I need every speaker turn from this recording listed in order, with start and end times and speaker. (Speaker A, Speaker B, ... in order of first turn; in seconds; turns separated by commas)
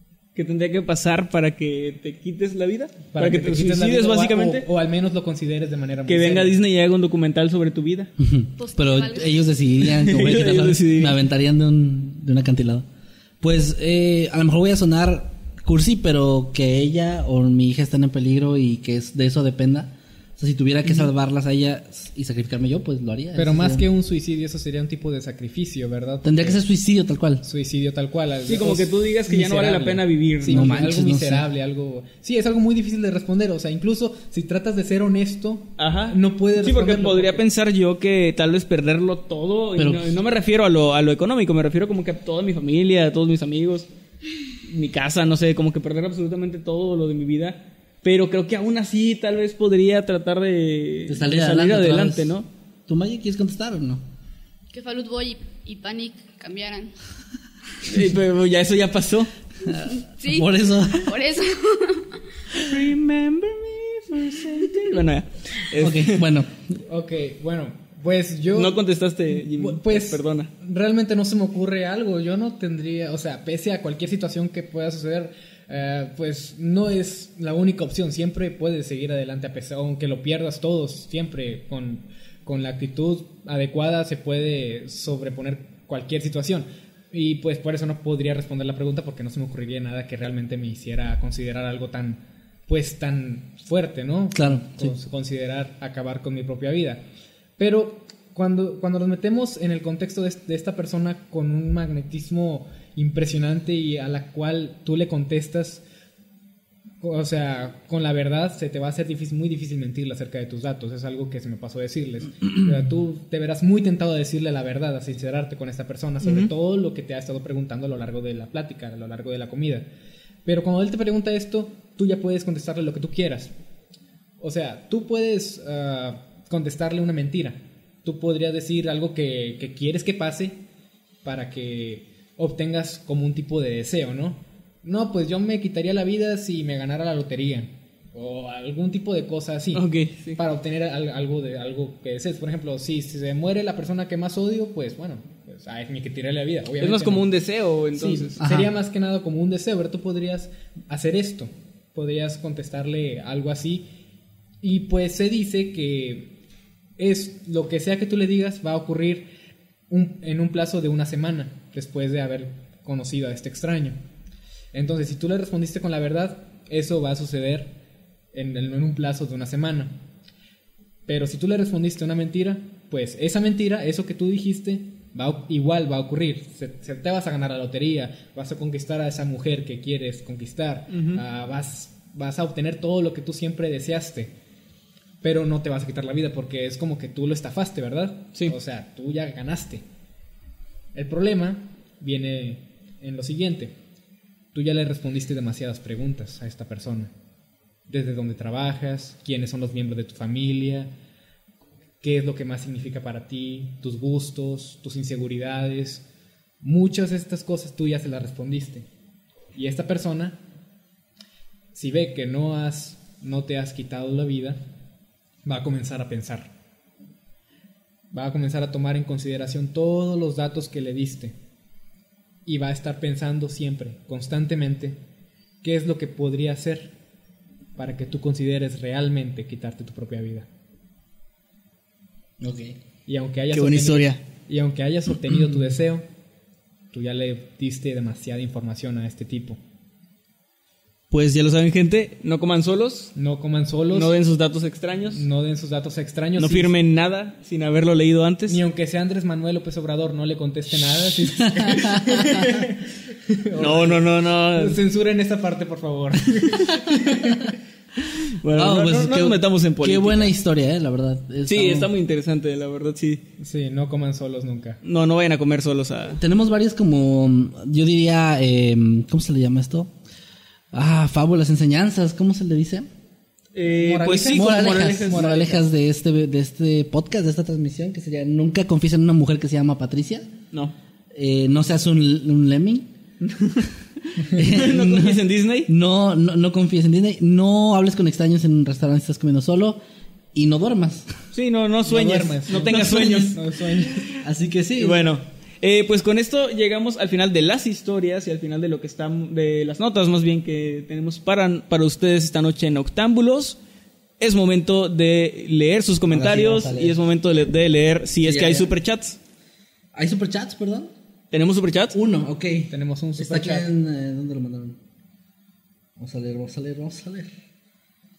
Speaker A: 0.3-4.7, Speaker B: 3.1-6.6, Speaker A: 6.0-8.1, Speaker C: 8.2-12.8, Speaker D: 8.6-9.4, Speaker A: 9.9-11.2, Speaker C: 13.4-23.9, Speaker B: 23.4-26.6, Speaker C: 26.2-27.4, Speaker B: 27.4-37.4, Speaker A: 28.4-30.8, Speaker C: 30.5-31.4, Speaker A: 35.8-43.9, Speaker C: 39.8-40.2, Speaker A: 44.7-52.5, Speaker C: 51.1-52.4, Speaker C: 52.9-54.0, Speaker D: 54.7-57.0, Speaker A: 57.8-59.3, Speaker C: 59.6-61.1, Speaker D: 59.8-62.2, Speaker A: 62.6-66.2, Speaker C: 65.8-66.8, Speaker B: 66.9-68.8, Speaker A: 68.5-70.5, Speaker B: 69.3-97.0, Speaker C: 94.3-94.9, Speaker B: 97.6-105.8, Speaker B: 107.0-119.9, Speaker A: 116.2-116.5, Speaker B: 120.4-123.5, Speaker B: 124.4-130.6, Speaker B: 131.2-147.3, Speaker A: 139.7-140.4, Speaker A: 146.8-148.4, Speaker B: 147.9-153.9, Speaker C: 148.4-148.7, Speaker B: 154.6-156.3, Speaker B: 157.0-159.3, Speaker B: 159.9-164.0, Speaker B: 164.7-167.7, Speaker B: 168.3-170.0, Speaker B: 171.1-184.3, Speaker A: 180.9-181.2, Speaker B: 185.2-189.8, Speaker B: 190.9-193.8, Speaker B: 194.5-197.1, Speaker B: 197.9-200.9, Speaker B: 202.0-206.0, Speaker B: 206.6-208.9, Speaker B: 209.5-210.4, Speaker B: 211.7-214.6, Speaker B: 215.4-216.5, Speaker B: 218.1-221.3, Speaker B: 222.4-225.0, Speaker B: 225.6-226.9, Speaker B: 227.8-230.5, Speaker C: 232.4-232.8, Speaker B: 233.1-236.1, Speaker A: 233.5-234.2, Speaker B: 236.9-239.6, Speaker A: 241.1-243.1, Speaker B: 243.1-244.1, Speaker A: 243.9-245.2, Speaker B: 245.1-246.7, Speaker A: 246.4-248.6, Speaker B: 248.5-254.0, Speaker C: 251.2-252.4, Speaker A: 253.6-254.8, Speaker B: 254.5-257.6, Speaker A: 258.3-260.3, Speaker C: 258.5-261.9, Speaker A: 261.4-263.2, Speaker B: 263.4-264.8, Speaker A: 264.8-266.2, Speaker C: 266.1-269.9, Speaker C: 270.7-272.9, Speaker A: 273.5-275.4, Speaker B: 273.8-275.6, Speaker C: 274.3-280.3, Speaker C: 281.1-282.9, Speaker A: 283.2-285.7, Speaker C: 284.3-289.8, Speaker C: 290.3-291.1, Speaker A: 291.3-293.4, Speaker B: 291.9-294.2, Speaker C: 294.2-295.1, Speaker A: 294.8-303.6, Speaker A: 304.2-309.2, Speaker C: 306.1-307.0, Speaker C: 308.2-308.7, Speaker C: 309.9-310.9, Speaker A: 311.3-312.0, Speaker C: 311.9-314.8, Speaker B: 312.7-313.7, Speaker C: 316.0-317.3